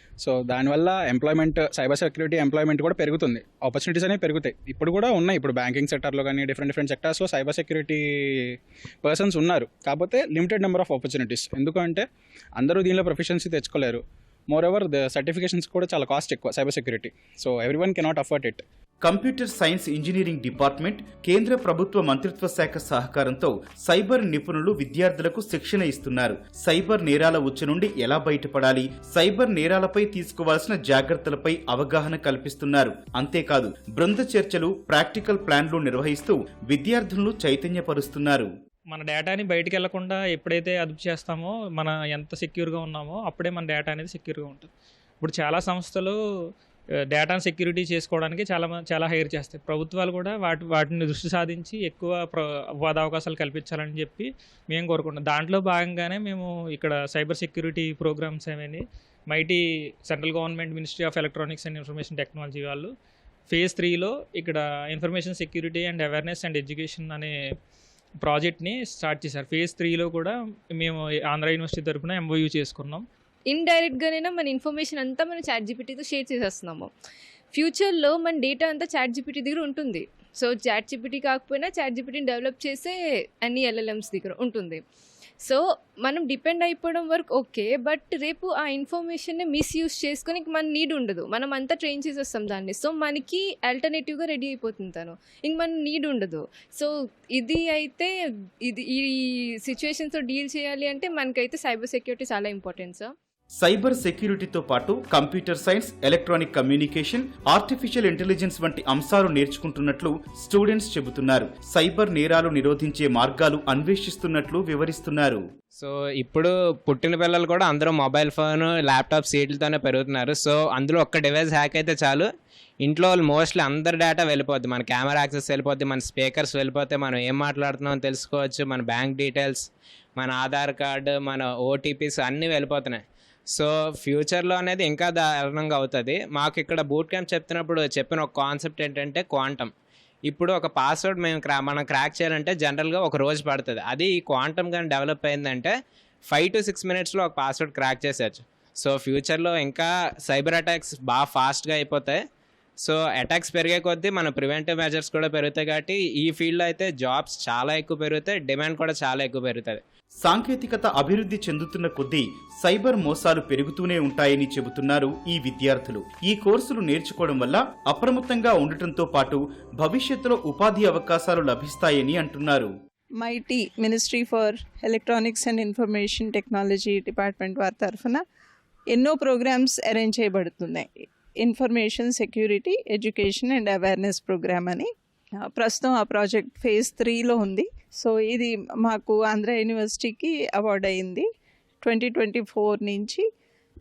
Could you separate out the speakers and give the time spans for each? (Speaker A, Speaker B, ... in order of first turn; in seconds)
Speaker A: 0.2-12.1, 12.6-18.6
Speaker B: 19.0-38.5, 103.6-115.4, 160.2-172.7
Speaker C: 38.9-44.7, 45.2-46.1, 47.1-62.9, 63.5-67.3, 68.2-73.0
Speaker D: 73.5-76.9, 77.5-84.8, 85.4-98.1, 98.7-99.1, 99.6-103.1
Speaker E: 115.8-122.3, 122.8-129.6, 130.2-133.0, 133.5-139.7, 140.3-145.7, 146.3-152.2, 152.8-159.8
Speaker F: 173.2-178.2, 178.9-180.9, 181.4-184.9, 185.4-191.2, 191.8-193.2